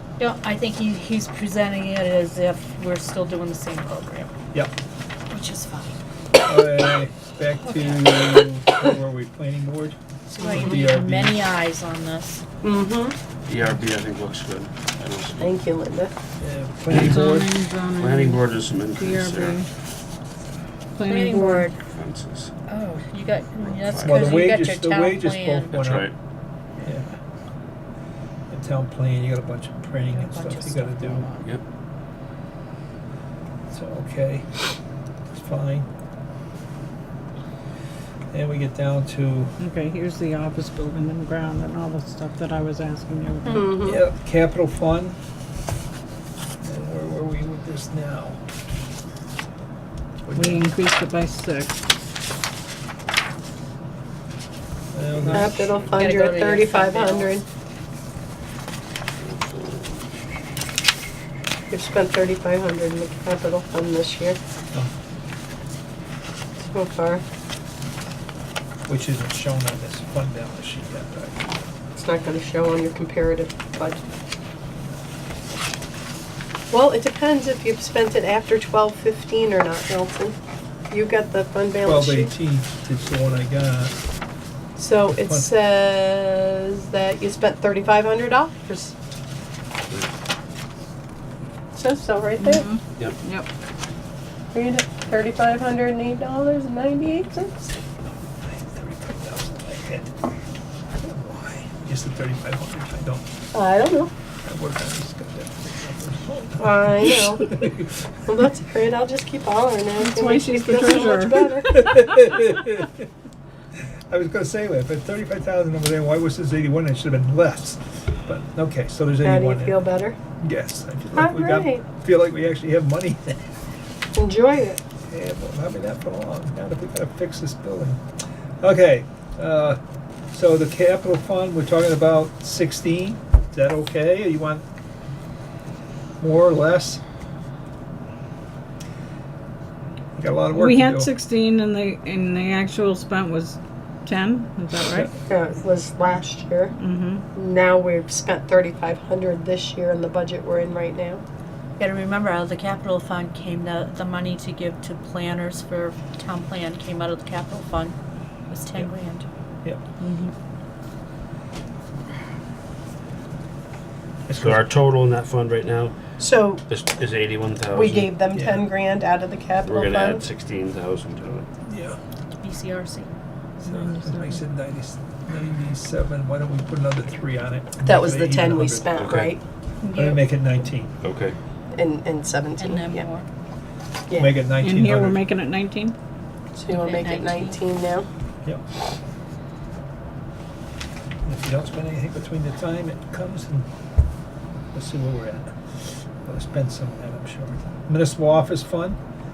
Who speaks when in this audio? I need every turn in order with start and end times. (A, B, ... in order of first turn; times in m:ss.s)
0:00.2-0:04.3 A
0:05.3-0:06.0 A
0:06.5-0:11.4 B
0:07.6-0:08.5 A
0:10.3-0:12.4 A
0:10.4-0:10.7 C
0:12.6-0:13.2 C
0:13.5-0:15.6 D
0:15.4-0:16.1 C
0:16.4-0:17.5 B
0:16.9-0:17.2 D
0:17.1-0:18.4 E
0:17.9-0:19.6 D
0:19.0-0:19.7 E
0:21.0-0:21.7 E
0:21.0-0:21.8 A
0:21.8-0:22.5 D
0:22.7-0:25.8 A
0:23.6-0:24.4 D
0:24.0-0:26.1 B
0:25.8-0:26.1 D
0:26.8-0:27.1 B
0:28.5-0:31.3 B
0:30.1-0:31.5 A
0:33.7-0:34.5 B
0:35.3-0:35.9 B
0:38.3-0:39.5 B
0:39.6-0:43.7 E
0:43.4-0:43.8 A
0:43.5-0:44.0 C
0:43.8-0:45.2 B
0:46.6-0:48.4 B
0:50.2-0:50.7 B
0:50.3-0:51.9 E
0:54.9-0:55.6 B
0:55.3-0:57.4 C
0:55.8-0:57.4 A
1:01.7-1:04.4 C
1:06.7-1:07.2 C
1:08.9-1:11.4 B
1:12.0-1:14.0 C
1:16.7-1:20.4 C
1:20.9-1:22.3 C
1:21.8-1:23.9 B
1:24.8-1:29.0 C
1:25.1-1:25.5 B
1:31.7-1:32.7 C
1:32.4-1:32.8 A
1:33.2-1:33.5 E
1:34.5-1:37.7 C
1:38.4-1:40.2 B
1:40.9-1:43.2 B
1:43.5-1:44.1 C
1:44.4-1:48.0 B
1:46.6-1:47.7 C
1:48.3-1:51.8 C
1:50.0-1:51.5 E
1:51.7-1:53.1 B
1:54.1-1:59.8 B
1:59.2-2:00.2 C
2:00.4-2:03.4 B
2:01.1-2:01.8 C
2:04.2-2:04.8 C
2:05.1-2:08.0 B
2:08.6-2:09.8 B
2:10.3-2:14.6 B
2:16.2-2:17.0 B
2:20.2-2:21.1 B
2:20.5-2:25.1 E
2:25.3-2:26.7 C
2:26.8-2:27.2 E
2:27.3-2:31.2 C
2:31.8-2:38.0 A
2:38.5-2:39.3 A
2:40.0-2:40.3 A
2:44.3-2:44.6 B
2:44.4-2:45.9 D
2:46.2-2:46.6 C
2:46.7-2:48.1 D
2:47.7-2:50.2 C
2:48.3-2:48.7 B
2:49.6-2:51.5 D
2:51.7-2:52.0 B
2:52.4-2:53.1 A
2:53.6-2:54.4 E
2:53.6-2:59.3 B
2:57.8-2:59.4 C
2:58.9-2:59.3 D
2:59.8-3:00.3 A
3:00.0-3:00.9 B
3:01.0-3:01.4 D
3:01.7-3:03.1 C
3:02.6-3:03.2 A
3:04.1-3:04.3 C
3:04.2-3:05.2 B
3:04.6-3:06.0 E
3:06.5-3:08.1 C
3:06.7-3:07.6 A
3:11.2-3:13.7 B
3:14.7-3:15.6 B
3:16.2-3:19.0 B